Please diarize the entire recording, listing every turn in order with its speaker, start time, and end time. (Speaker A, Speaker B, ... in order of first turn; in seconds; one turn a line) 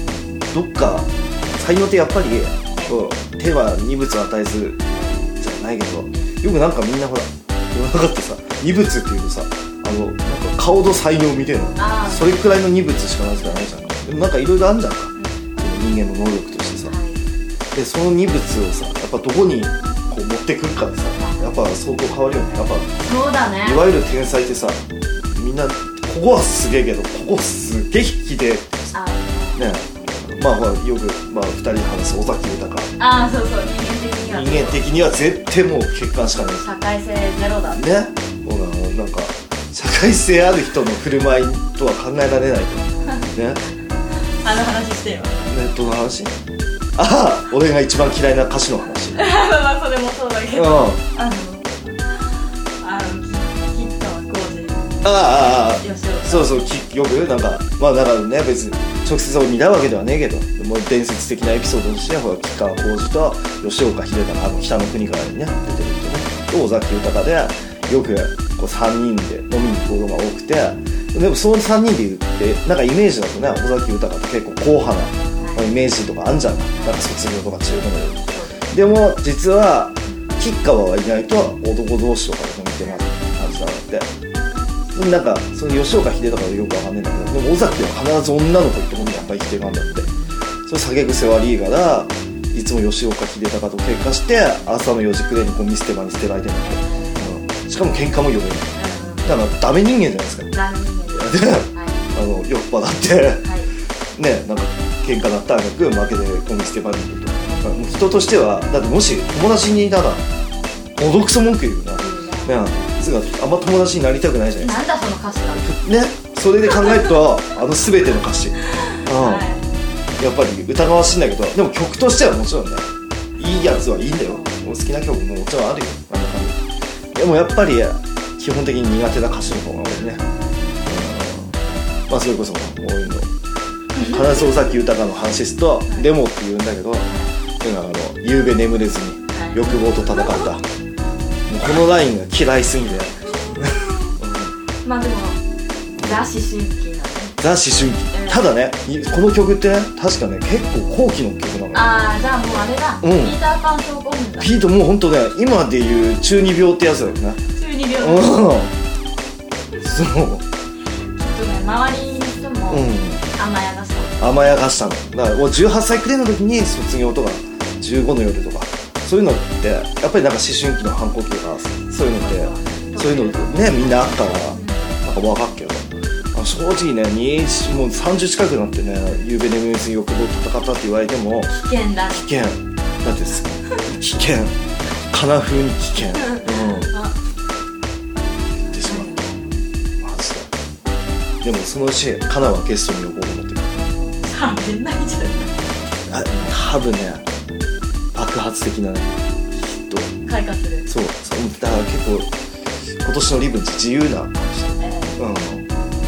Speaker A: 0.5-4.8
Speaker B: 5.0-5.3
Speaker A: 5.4-16.9
Speaker B: 11.8-12.4
Speaker B: 15.2-15.4
Speaker B: 16.9-17.2
Speaker A: 17.7-22.9
Speaker B: 21.2-21.6
Speaker B: 22.9-23.9
Speaker A: 23.6-28.9
Speaker B: 28.9-30.0
Speaker A: 29.6-32.9
Speaker B: 33.0-34.8
Speaker A: 34.3-36.7
Speaker B: 36.6-37.8
Speaker A: 37.7-43.6
Speaker B: 44.4-45.5
Speaker A: 45.4-46.4
Speaker A: 47.0-49.2
Speaker B: 49.1-55.0
Speaker A: 50.5-51.0
Speaker A: 55.0-84.1
Speaker B: 55.7-56.6
Speaker B: 75.4-75.7
Speaker B: 76.8-77.0
Speaker B: 78.1-78.7
Speaker B: 82.8-83.6
Speaker A: 84.9-90.1
Speaker B: 89.7-90.4
Speaker A: 90.7-100.5
Speaker B: 96.6-97.3
Speaker B: 98.8-99.3
Speaker B: 100.5-102.0
Speaker A: 101.1-103.5
Speaker B: 103.4-103.7
Speaker A: 104.2-110.2
Speaker B: 107.3-108.0
Speaker A: 111.0-114.8
Speaker B: 112.0-112.6
Speaker B: 114.6-115.7
Speaker A: 115.5-119.5
Speaker B: 116.8-117.2
Speaker B: 118.6-119.7
Speaker A: 120.2-122.9
Speaker A: 123.4-130.2
Speaker B: 124.3-124.5
Speaker A: 130.9-133.3
Speaker A: 133.9-137.1
Speaker A: 137.6-140.7
Speaker B: 139.3-140.5
Speaker A: 141.5-144.5
Speaker B: 143.3-144.2
Speaker B: 144.8-145.4
Speaker B: 146.0-147.4
Speaker A: 147.4-153.4
Speaker B: 148.1-148.4
Speaker B: 151.7-154.6
Speaker A: 154.4-157.4
Speaker B: 157.5-158.5
Speaker A: 158.0-158.8
Speaker A: 159.8-160.4
Speaker B: 161.2-164.4
Speaker A: 162.7-163.2
Speaker A: 164.2-181.6
Speaker B: 172.0-175.0
Speaker B: 181.6-182.3
Speaker A: 182.1-184.6
Speaker A: 185.1-186.9
Speaker B: 186.2-187.1
Speaker A: 188.6-189.1
Speaker B: 188.7-189.6
Speaker A: 190.0-190.5
Speaker A: 191.4-193.8
Speaker B: 194.2-195.6
Speaker A: 196.1-197.2
Speaker A: 198.1-200.1
Speaker B: 200.2-200.9
Speaker A: 200.9-202.3
Speaker A: 203.0-205.7
Speaker B: 204.8-205.2